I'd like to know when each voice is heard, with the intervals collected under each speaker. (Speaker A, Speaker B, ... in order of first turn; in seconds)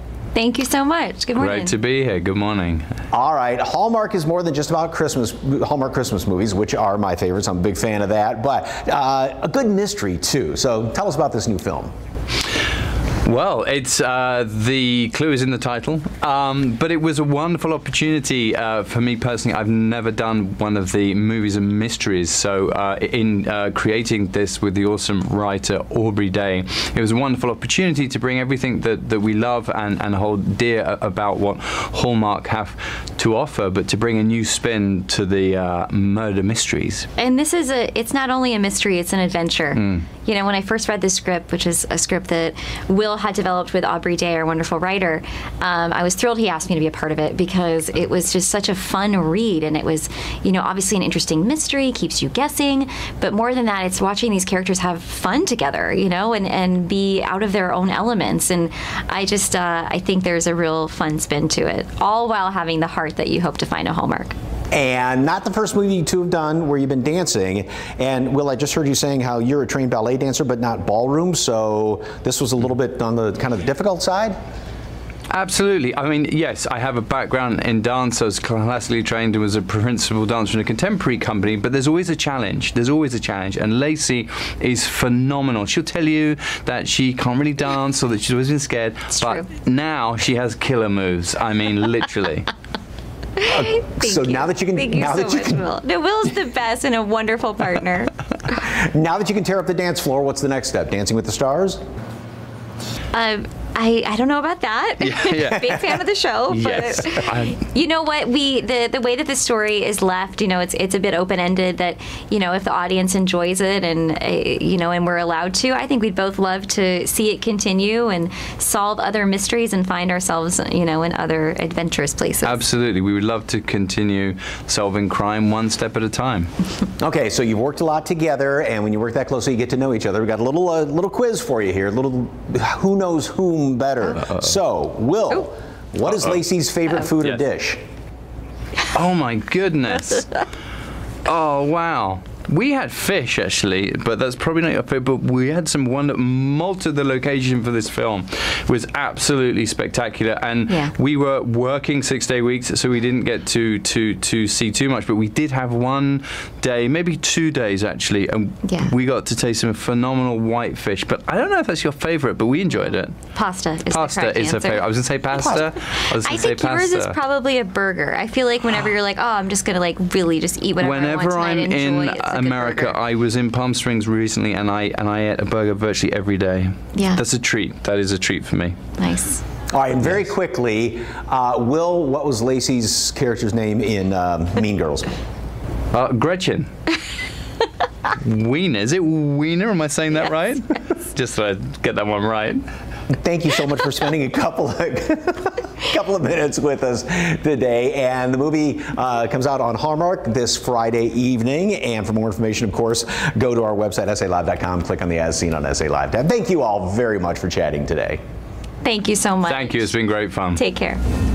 Speaker A: 0.3-1.7, 37.2-64.3, 89.1-89.5, 93.4-98.5, 103.1-122.6, 150.7-150.9, 158.7-158.9, 162.7-172.9, 176.9-177.2, 179.0-179.4, 208.8-209.9, 210.5-211.0
Speaker B: 1.4-2.9, 13.2-37.1, 39.8-40.0, 75.3-92.5, 105.0-107.6, 122.4-126.5, 138.9-140.4, 141.2-163.2, 163.9-167.2, 170.8-178.8, 185.9-186.7, 188.2-192.6, 209.4-210.6
Speaker C: 3.1-11.9, 64.7-74.3, 93.4-95.7, 98.6-101.8, 127.0-137.8, 179.7-185.1, 193.1-208.2